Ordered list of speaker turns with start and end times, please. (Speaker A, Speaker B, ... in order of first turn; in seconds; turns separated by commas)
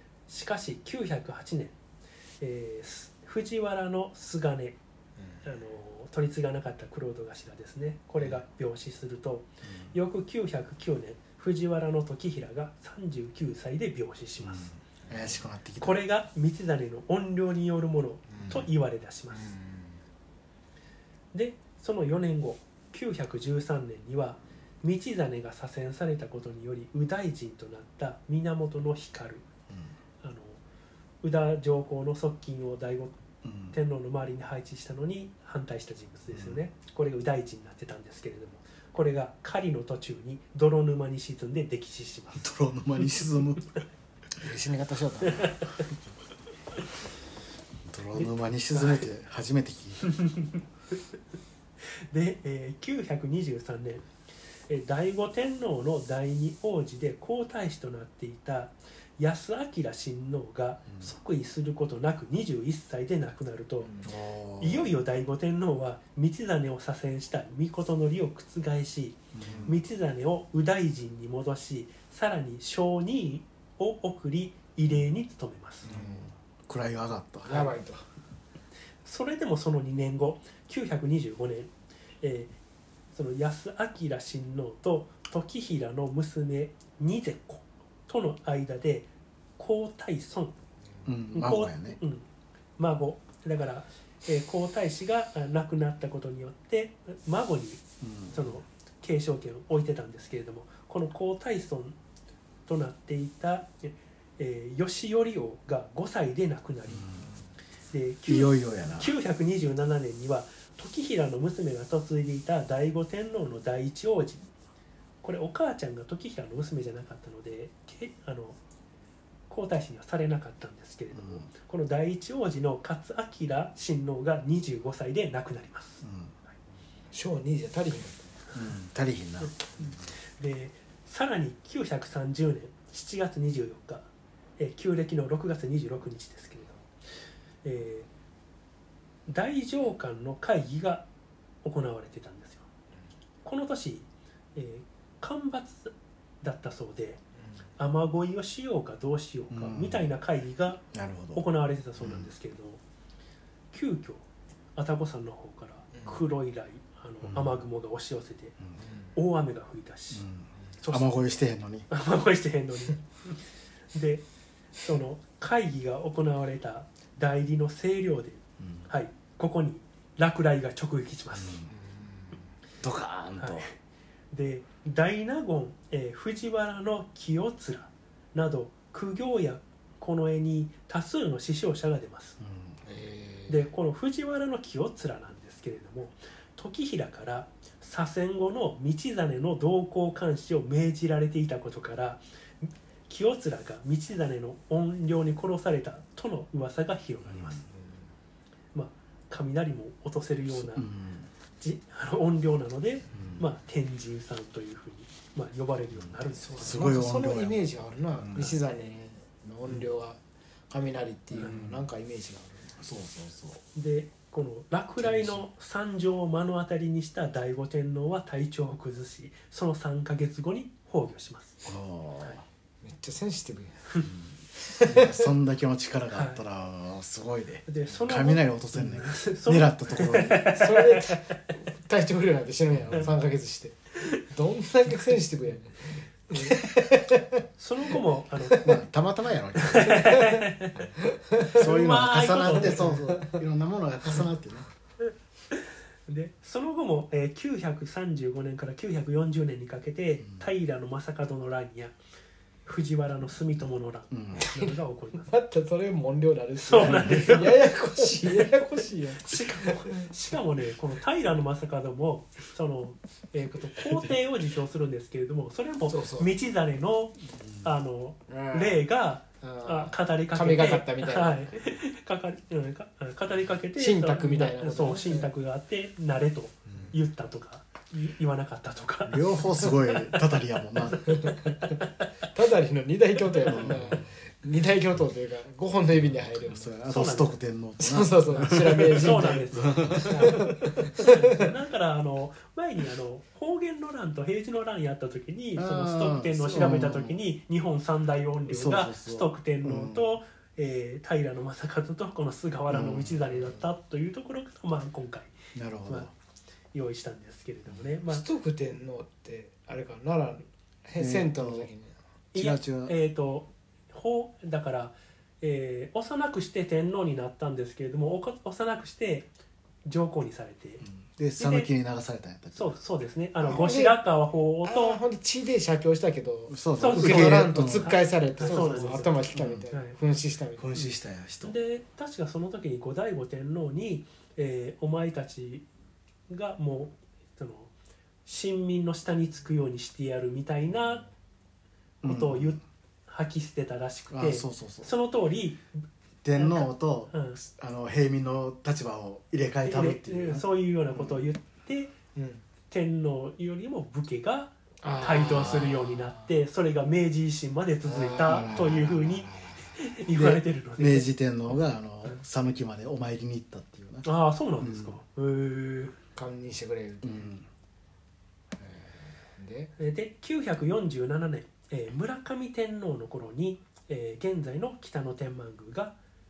Speaker A: 0.3-1.8, Speaker A: 2.4-4.8, Speaker A: 5.4-14.7, Speaker B: 9.6-9.9, Speaker B: 14.4-16.0, Speaker C: 15.1-15.4, Speaker A: 15.8-19.6, Speaker C: 18.3-18.6, Speaker C: 19.3-20.0, Speaker A: 21.3-29.5, Speaker A: 30.2-30.6, Speaker A: 31.2-42.5, Speaker B: 33.4-33.8, Speaker B: 36.3-36.6, Speaker B: 42.4-43.8, Speaker C: 44.4-45.5, Speaker A: 45.2-45.8, Speaker B: 47.9-50.1, Speaker A: 48.2-49.1, Speaker A: 50.0-50.6, Speaker A: 51.8-54.0, Speaker A: 54.7-63.9, Speaker C: 63.8-64.1, Speaker B: 64.0-64.9, Speaker A: 64.6-75.9, Speaker B: 69.3-69.8, Speaker C: 69.4-69.7, Speaker C: 75.8-76.3, Speaker B: 75.8-77.7, Speaker C: 77.4-78.0, Speaker A: 79.0-82.5, Speaker A: 83.1-90.5, Speaker B: 91.0-92.0, Speaker A: 91.3-92.2, Speaker A: 92.8-102.0, Speaker B: 98.0-98.4, Speaker A: 102.7-107.1, Speaker B: 106.9-107.3, Speaker A: 107.9-114.4, Speaker B: 108.3-109.1, Speaker A: 115.2-118.6, Speaker A: 119.5-126.0, Speaker B: 121.1-121.5, Speaker B: 126.0-126.3, Speaker C: 127.1-128.4, Speaker B: 128.5-130.1, Speaker A: 129.8-136.9, Speaker A: 137.6-138.1, Speaker A: 139.3-141.1, Speaker A: 141.6-142.7, Speaker A: 143.4-147.2, Speaker A: 147.8-150.8, Speaker B: 149.5-150.1, Speaker B: 150.9-151.4, Speaker A: 151.3-152.8, Speaker B: 152.0-152.3, Speaker A: 153.7-158.5, Speaker B: 157.2-157.6, Speaker C: 158.8-159.1, Speaker A: 159.1-160.2, Speaker B: 160.1-161.9, Speaker A: 160.8-161.1, Speaker A: 161.9-164.2, Speaker A: 164.8-171.6, Speaker B: 168.6-168.9, Speaker B: 171.3-171.7, Speaker C: 171.7-172.4, Speaker B: 172.8-173.7, Speaker A: 173.4-173.7, Speaker A: 174.3-182.4, Speaker B: 182.4-182.8, Speaker C: 182.8-183.6, Speaker A: 183.5-197.6, Speaker B: 197.2-197.6, Speaker C: 197.7-198.0, Speaker A: 198.7-200.8, Speaker B: 200.5-201.3, Speaker A: 201.6-206.9, Speaker B: 203.1-203.4, Speaker B: 205.9-208.6, Speaker C: 206.5-210.2, Speaker C: 210.7-212.8, Speaker B: 211.3-211.8, Speaker B: 212.8-213.6, Speaker A: 213.7-221.7, Speaker B: 215.1-215.4, Speaker B: 221.7-222.4, Speaker C: 222.8-223.9, Speaker B: 224.0-230.5, Speaker C: 224.6-225.3, Speaker A: 226.1-226.4, Speaker A: 227.7-231.2, Speaker C: 230.5-237.4, Speaker A: 237.6-238.8, Speaker B: 238.6-240.1, Speaker A: 239.6-240.9, Speaker C: 239.9-240.5, Speaker C: 241.0-241.5, Speaker B: 241.4-244.7, Speaker A: 241.4-243.0, Speaker C: 242.8-243.4, Speaker A: 245.0-251.9, Speaker A: 252.6-255.3, Speaker B: 254.1-254.4, Speaker C: 254.3-254.7, Speaker C: 255.2-260.1, Speaker A: 256.6-282.1, Speaker C: 265.9-266.3, Speaker B: 267.4-267.7, Speaker C: 268.3-268.8, Speaker C: 269.4-271.5, Speaker C: 273.8-275.3, Speaker B: 276.7-276.9, Speaker B: 279.0-281.2, Speaker C: 281.1-281.6, Speaker C: 282.3-286.7, Speaker B: 283.4-284.1, Speaker B: 286.0-290.5, Speaker A: 286.9-287.4, Speaker C: 287.8-291.4, Speaker A: 288.4-306.1, Speaker B: 295.6-297.2, Speaker C: 296.5-296.8, Speaker B: 298.5-300.1, Speaker B: 302.7-303.2, Speaker B: 305.5-306.1, Speaker A: 306.7-308.2, Speaker C: 308.1-311.9, Speaker B: 311.0-311.7, Speaker A: 312.3-319.3, Speaker B: 312.3-312.9, Speaker A: 319.8-320.8, Speaker B: 320.8-322.7, Speaker A: 321.4-321.7, Speaker A: 322.5-325.0, Speaker C: 323.4-324.0, Speaker C: 324.6-330.7, Speaker B: 326.5-329.7, Speaker A: 326.8-329.9, Speaker B: 330.6-331.5, Speaker A: 331.4-335.7, Speaker A: 336.3-337.7, Speaker A: 338.2-341.1, Speaker B: 342.0-342.6, Speaker A: 342.0-345.6, Speaker B: 344.1-344.9, Speaker B: 346.2-351.3, Speaker A: 346.4-347.4, Speaker A: 349.6-351.9, Speaker C: 352.1-352.4, Speaker A: 352.7-361.1, Speaker C: 354.8-356.3, Speaker C: 357.8-359.7, Speaker B: 358.2-358.9, Speaker B: 360.1-365.0, Speaker A: 364.0-366.0, Speaker C: 366.1-367.2, Speaker B: 367.0-367.4, Speaker C: 368.6-369.7, Speaker A: 369.8-375.9